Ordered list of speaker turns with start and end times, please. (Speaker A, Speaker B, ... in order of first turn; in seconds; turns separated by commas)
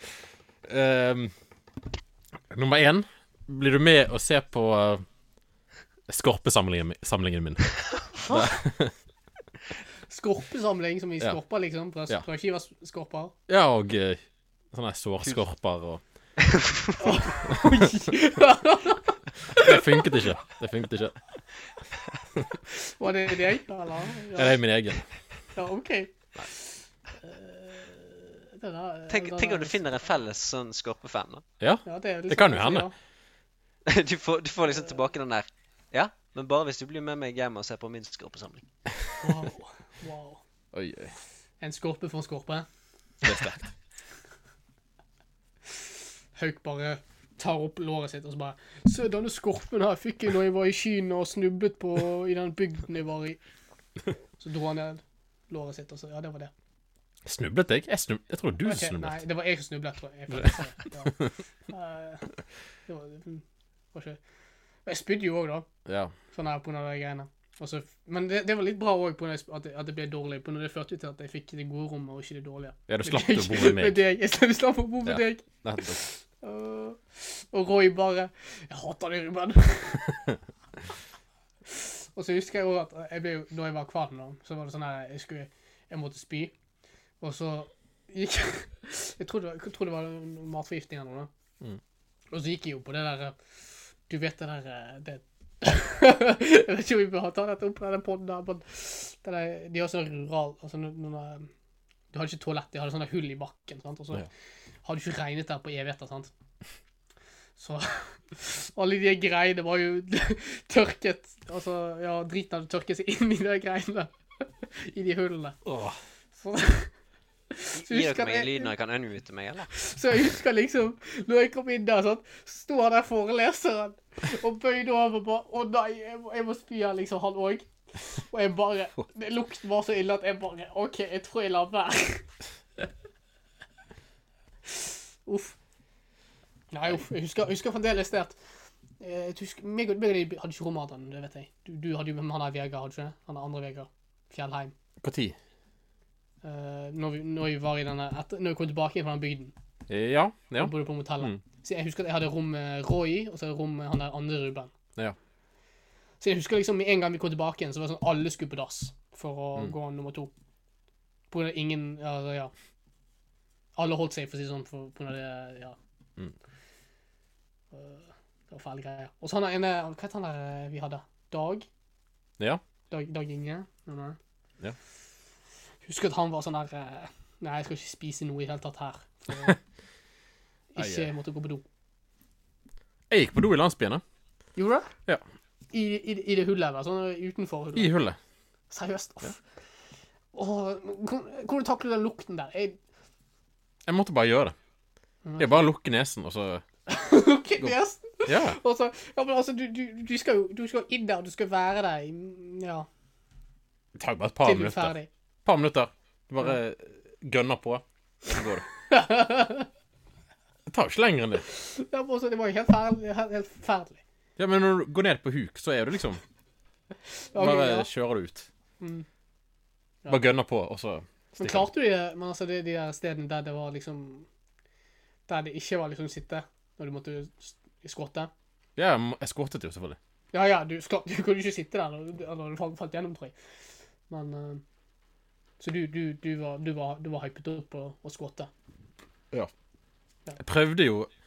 Speaker A: 0.6-1.3, Speaker A: 2.5-5.0, Speaker A: 6.1-8.9, Speaker B: 10.1-13.3, Speaker A: 13.5-14.2, Speaker A: 14.7-16.0, Speaker C: 16.4-17.2, Speaker B: 17.0-19.9, Speaker A: 19.5-21.2, Speaker B: 22.7-24.6, Speaker A: 24.4-25.1, Speaker B: 25.6-30.1, Speaker C: 29.1-31.4, Speaker A: 31.6-32.9, Speaker B: 31.9-32.9, Speaker C: 33.9-38.6, Speaker B: 39.2-40.4, Speaker A: 40.7-41.1, Speaker B: 41.6-42.7, Speaker A: 43.2-43.7, Speaker B: 46.4-53.4, Speaker B: 54.4-56.5, Speaker A: 57.2-59.2, Speaker B: 58.6-62.3, Speaker B: 62.9-64.2, Speaker B: 64.9-65.7, Speaker A: 65.9-66.1, Speaker B: 66.3-80.3, Speaker A: 72.9-74.0, Speaker A: 75.1-76.0, Speaker B: 81.7-86.5, Speaker B: 87.2-91.3, Speaker B: 92.3-93.4, Speaker B: 94.1-101.5, Speaker B: 102.1-104.3, Speaker B: 104.8-106.3, Speaker B: 107.6-115.6, Speaker A: 115.7-116.0, Speaker B: 116.4-116.9, Speaker B: 117.5-118.7, Speaker C: 117.8-119.7, Speaker B: 119.7-132.3, Speaker B: 134.8-135.6, Speaker B: 136.7-138.4, Speaker B: 139.0-144.7, Speaker A: 145.0-145.4, Speaker B: 146.4-149.5, Speaker A: 149.9-151.4, Speaker B: 150.6-154.7, Speaker B: 156.2-160.3, Speaker B: 161.3-162.5, Speaker B: 163.8-165.8, Speaker B: 167.7-171.7, Speaker B: 172.9-174.2, Speaker B: 175.8-179.6, Speaker B: 180.7-181.6, Speaker A: 180.8-181.1, Speaker A: 183.1-184.0, Speaker B: 184.6-184.9, Speaker B: 185.7-187.9, Speaker A: 187.8-188.2, Speaker B: 188.7-189.4, Speaker B: 190.3-192.8, Speaker A: 193.9-194.6, Speaker B: 195.2-195.7, Speaker A: 195.4-196.6, Speaker B: 196.9-202.9, Speaker A: 198.3-198.6, Speaker A: 204.0-208.7, Speaker B: 204.4-205.1, Speaker B: 208.9-209.7, Speaker A: 210.7-211.4, Speaker B: 211.4-214.0, Speaker A: 214.4-216.2, Speaker B: 217.1-217.9, Speaker A: 217.3-218.5, Speaker B: 218.8-219.1, Speaker A: 220.1-221.7, Speaker B: 221.4-224.3, Speaker B: 225.3-228.3, Speaker A: 228.8-230.0, Speaker B: 230.3-233.3, Speaker B: 234.1-234.6, Speaker B: 235.6-238.5, Speaker A: 240.4-241.1